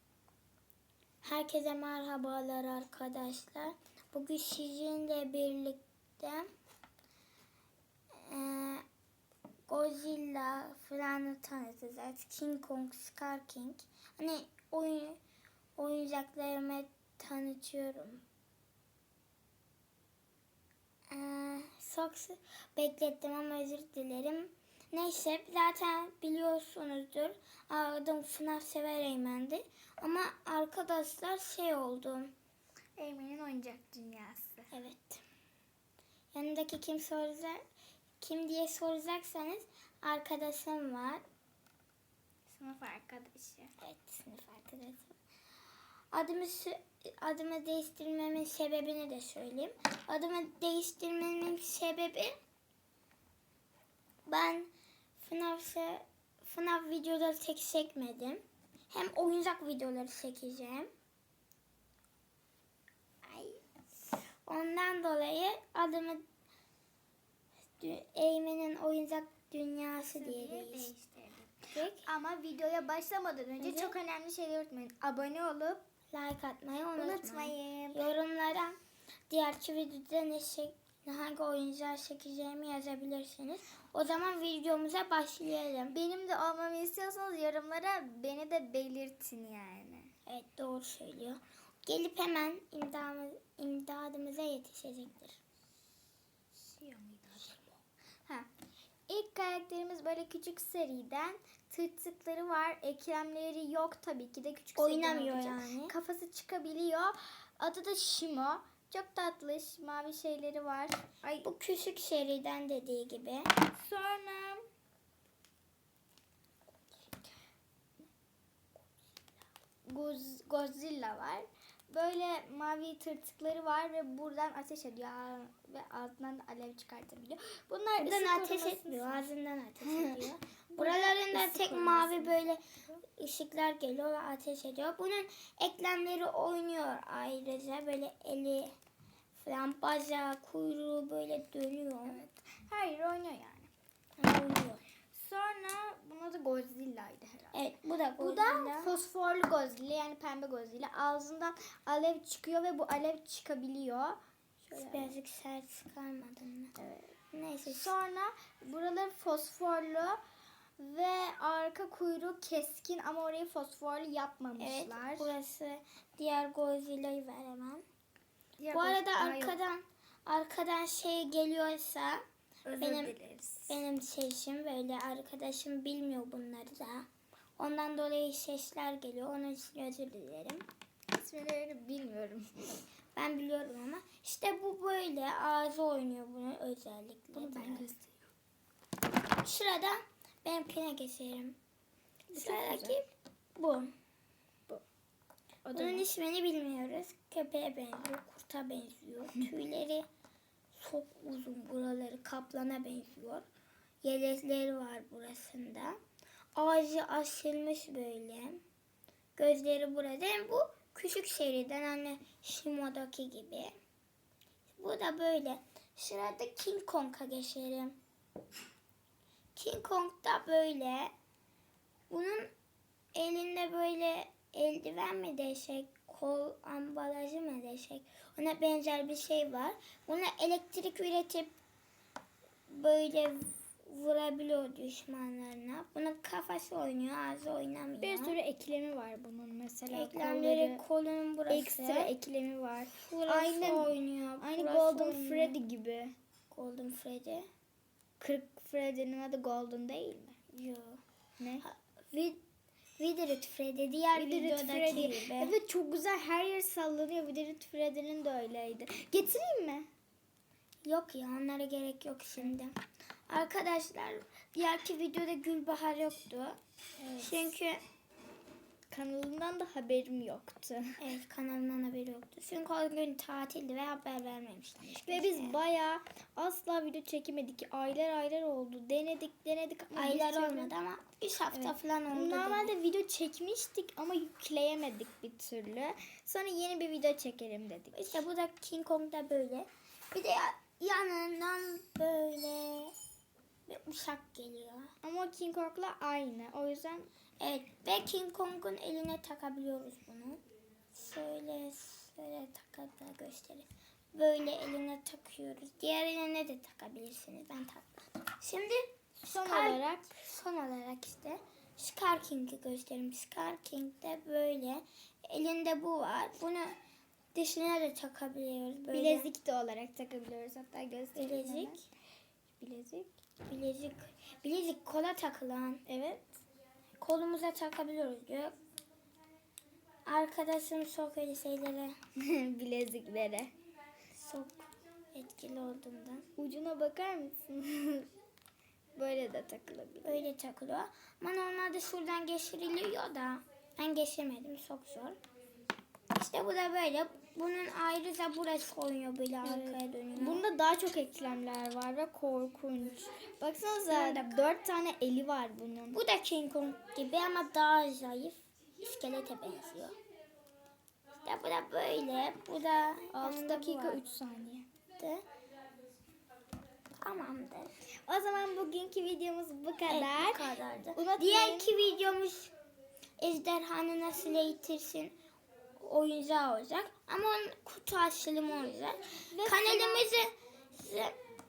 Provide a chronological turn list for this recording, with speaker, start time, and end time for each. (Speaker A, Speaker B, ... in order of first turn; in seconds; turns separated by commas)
Speaker A: 1.2-6.5, Speaker A: 8.2-8.8, Speaker A: 9.7-15.2, Speaker A: 15.8-18.2, Speaker A: 21.1-32.3, Speaker B: 33.0-34.7, Speaker A: 34.7-35.2, Speaker A: 36.3-37.6, Speaker A: 38.2-41.2, Speaker B: 42.5-43.7, Speaker A: 43.8-45.2, Speaker A: 46.1-52.4, Speaker A: 54.3-60.9, Speaker A: 63.2-63.6, Speaker A: 64.5-66.2, Speaker A: 67.8-70.9, Speaker B: 70.1-75.8, Speaker A: 71.7-72.1, Speaker A: 73.6-73.9, Speaker A: 76.1-78.8, Speaker B: 77.0-78.1, Speaker A: 79.3-86.0, Speaker B: 85.9-90.1, Speaker A: 90.3-95.4, Speaker B: 96.5-98.5, Speaker B: 99.1-111.5, Speaker A: 104.8-105.9, Speaker A: 111.4-113.5, Speaker B: 113.7-114.7, Speaker B: 119.8-129.2, Speaker A: 128.0-132.6, Speaker B: 129.8-132.5, Speaker A: 133.2-138.7, Speaker A: 139.3-142.2, Speaker B: 142.1-143.7, Speaker A: 144.2-144.8, Speaker B: 145.1-147.6, Speaker A: 147.5-148.9, Speaker B: 148.2-155.2, Speaker A: 154.7-156.7, Speaker B: 156.8-157.1, Speaker A: 157.3-157.9, Speaker B: 157.7-160.2, Speaker B: 160.8-165.4, Speaker A: 164.6-167.8, Speaker B: 168.6-169.6, Speaker A: 168.7-172.2, Speaker B: 172.7-173.8, Speaker A: 172.8-173.2, Speaker A: 173.7-177.1, Speaker A: 177.6-180.7, Speaker B: 181.1-182.8, Speaker A: 183.2-187.9, Speaker B: 187.3-188.2, Speaker A: 189.4-191.6, Speaker B: 192.3-193.0, Speaker A: 192.3-193.9, Speaker B: 195.7-196.1, Speaker A: 195.7-200.1, Speaker A: 200.7-203.4, Speaker A: 204.0-206.0, Speaker A: 206.6-208.6, Speaker A: 209.4-213.7, Speaker A: 214.8-218.0, Speaker A: 219.6-221.1, Speaker A: 222.1-222.5, Speaker A: 223.2-231.5, Speaker A: 232.7-238.4, Speaker B: 238.0-240.8, Speaker A: 239.9-242.1, Speaker B: 241.5-246.2, Speaker A: 243.0-245.6, Speaker A: 246.5-247.5, Speaker B: 248.2-250.4, Speaker A: 250.5-251.0, Speaker B: 251.4-251.7, Speaker A: 251.6-252.4, Speaker A: 253.0-255.5, Speaker B: 254.1-259.9, Speaker A: 260.9-266.6, Speaker B: 267.0-267.5, Speaker A: 267.2-267.8, Speaker B: 268.9-271.0, Speaker A: 271.0-275.6, Speaker B: 275.1-280.7, Speaker A: 279.9-282.7, Speaker B: 281.5-288.2, Speaker A: 287.9-292.9, Speaker A: 293.7-294.9, Speaker B: 295.0-297.1, Speaker A: 297.4-316.8, Speaker B: 309.2-310.1, Speaker A: 317.3-319.3, Speaker B: 318.9-321.9, Speaker A: 321.1-321.8, Speaker B: 322.6-323.2, Speaker A: 323.4-325.8, Speaker B: 325.9-326.3, Speaker A: 327.0-328.6, Speaker A: 330.1-332.0, Speaker B: 332.2-333.5, Speaker A: 334.1-336.3, Speaker B: 336.4-338.1, Speaker B: 338.9-340.3, Speaker A: 340.1-345.2, Speaker A: 346.1-350.4, Speaker B: 349.4-356.0, Speaker A: 353.9-354.4, Speaker A: 355.9-360.0, Speaker A: 361.2-364.0, Speaker B: 363.1-364.7, Speaker A: 365.0-365.2, Speaker A: 366.9-367.7, Speaker B: 368.0-371.7, Speaker A: 369.9-372.5, Speaker A: 373.2-375.2, Speaker A: 375.8-381.2, Speaker B: 379.3-380.1